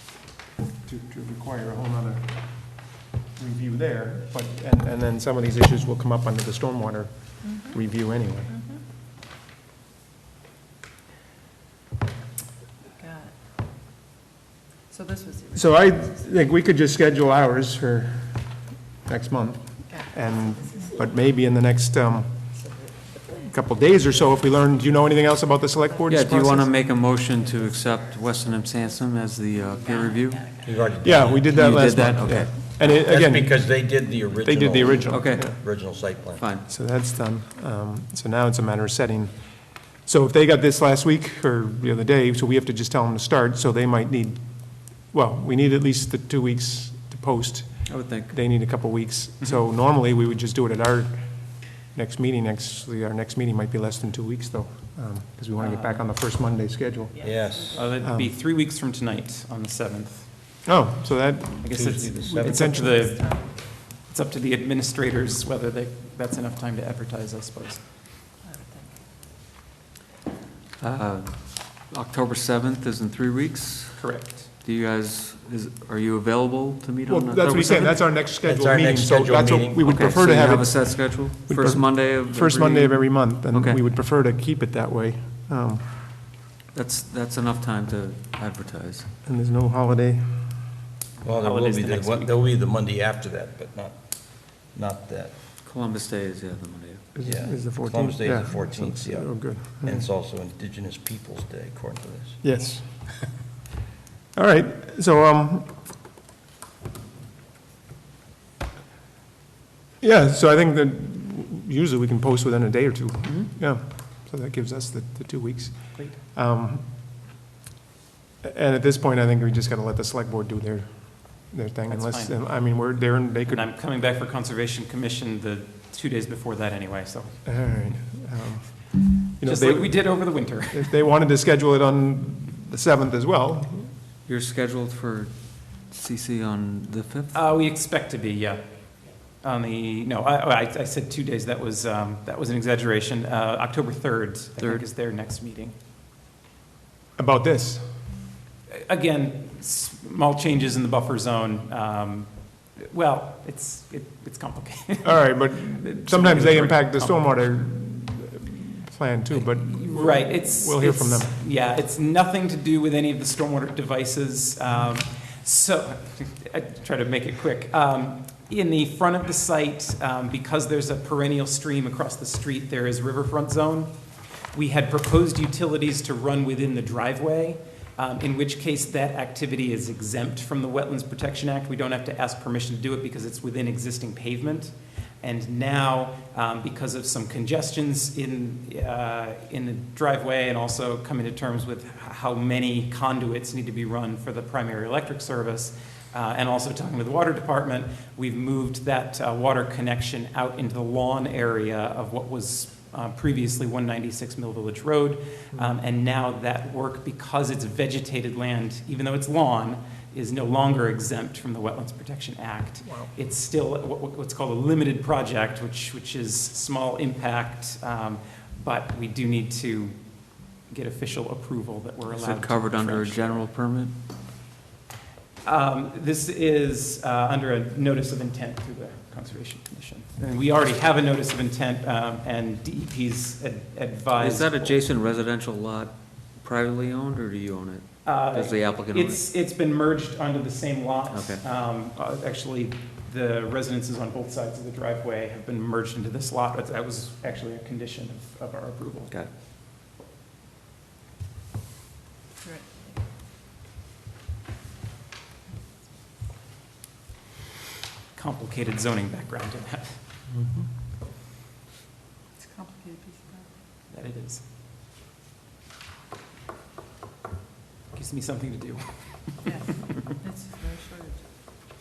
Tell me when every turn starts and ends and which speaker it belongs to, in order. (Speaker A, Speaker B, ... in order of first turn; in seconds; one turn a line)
Speaker A: 0.8-2.4
Speaker A: 3.4-8.6
Speaker B: 7.4-7.8
Speaker B: 8.5-8.8
Speaker B: 13.0-13.3
Speaker B: 14.9-16.1
Speaker A: 15.6-18.4
Speaker A: 19.1-22.4
Speaker B: 19.9-21.0
Speaker B: 22.5-24.5
Speaker A: 23.5-26.7
Speaker B: 25.9-30.8
Speaker C: 26.1-30.5
Speaker D: 30.6-31.6
Speaker A: 31.0-33.8
Speaker C: 31.4-32.5
Speaker D: 32.8-36.4
Speaker A: 34.4-35.6
Speaker C: 35.1-35.6
Speaker C: 36.4-36.6
Speaker A: 36.7-39.3
Speaker A: 40.0-44.4
Speaker A: 44.9-57.3
Speaker C: 47.9-48.3
Speaker E: 55.6-56.1
Speaker B: 57.2-57.9
Speaker D: 57.2-57.8
Speaker E: 57.7-60.3
Speaker A: 58.0-58.3
Speaker A: 60.7-63.2
Speaker E: 61.6-67.8
Speaker D: 61.7-62.7
Speaker B: 68.4-69.0
Speaker C: 70.8-78.0
Speaker E: 74.0-74.5
Speaker A: 77.1-85.8
Speaker D: 78.3-79.9
Speaker C: 79.8-83.8
Speaker C: 86.7-89.1
Speaker A: 89.2-90.5
Speaker D: 91.2-95.3
Speaker E: 91.3-92.3
Speaker C: 95.6-97.0
Speaker A: 97.2-100.1
Speaker D: 97.2-102.4
Speaker A: 102.4-102.9
Speaker A: 104.3-105.7
Speaker A: 110.0-116.9
Speaker E: 113.2-113.5
Speaker A: 118.4-123.7
Speaker E: 121.9-122.8
Speaker E: 123.5-127.4
Speaker A: 127.5-133.9
Speaker E: 129.4-130.9
Speaker C: 134.3-135.3
Speaker C: 135.9-137.4
Speaker E: 137.3-138.6
Speaker E: 139.4-145.7
Speaker C: 144.6-144.8
Speaker A: 147.2-147.8
Speaker E: 148.7-157.2
Speaker A: 155.0-161.3
Speaker E: 159.3-173.9
Speaker E: 174.5-219.9
Speaker E: 220.7-223.4
Speaker C: 222.1-223.9
Speaker E: 225.4-234.8
Speaker C: 234.2-239.2
Speaker E: 238.0-249.1
Speaker C: 241.1-241.4
Speaker B: 252.4-253.0
Speaker E: 258.1-260.0
Speaker A: 260.3-260.7
Speaker B: 262.4-263.5
Speaker E: 263.9-264.4
Speaker E: 267.9-269.6
Speaker B: 269.4-271.2